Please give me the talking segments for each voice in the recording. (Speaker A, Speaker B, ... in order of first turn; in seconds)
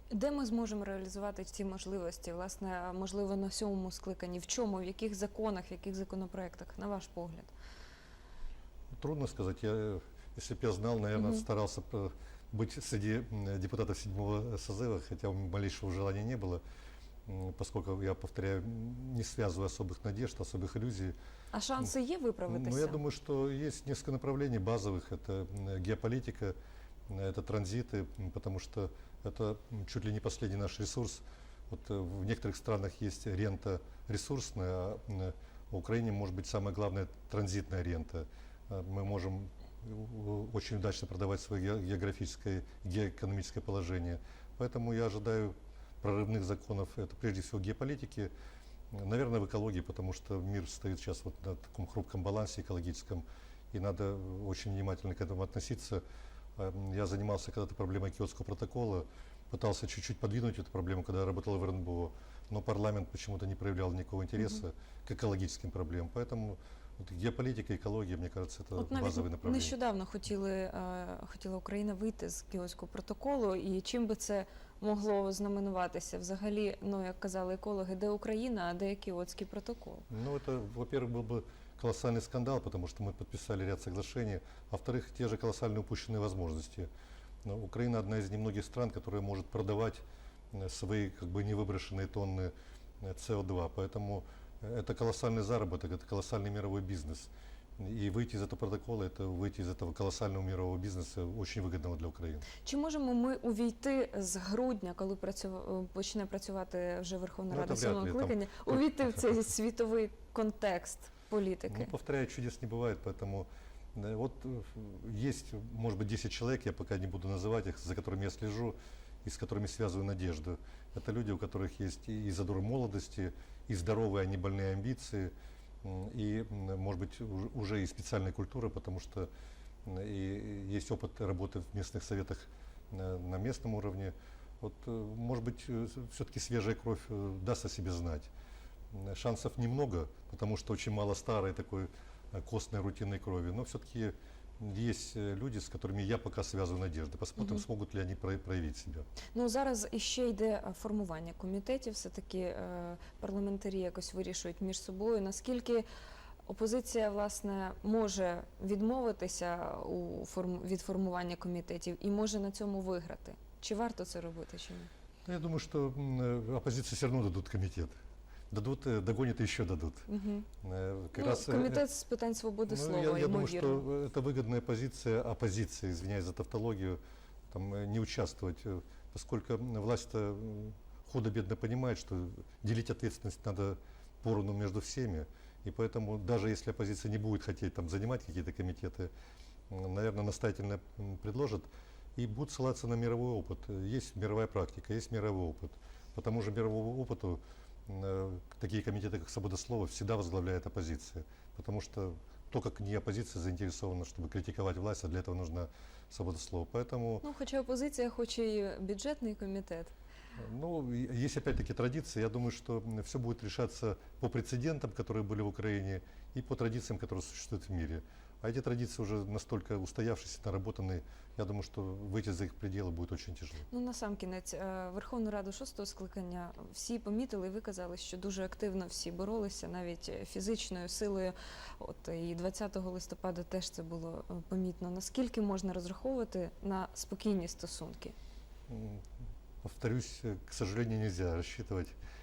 Speaker A: 0.1-7.5, 11.2-11.4, 21.5-23.0, 68.8-80.1, 102.6-111.9, 147.4-147.6, 149.3-155.8, 156.5-164.9, 170.1-170.5, 171.2-173.9, 207.2-209.9, 223.7-238.2
Speaker B: 9.0-16.6, 17.3-21.1, 22.5-26.6, 27.1-48.3, 48.9-56.0, 56.6-69.8, 80.1-86.9, 87.5-102.5, 107.5-108.8, 111.7-129.3, 129.8-138.3, 138.9-149.1, 165.2-167.9, 168.5-170.1, 170.6-171.8, 172.7-177.0, 177.5-189.1, 189.7-207.2, 210.4-223.7, 238.7-239.0, 239.6-241.9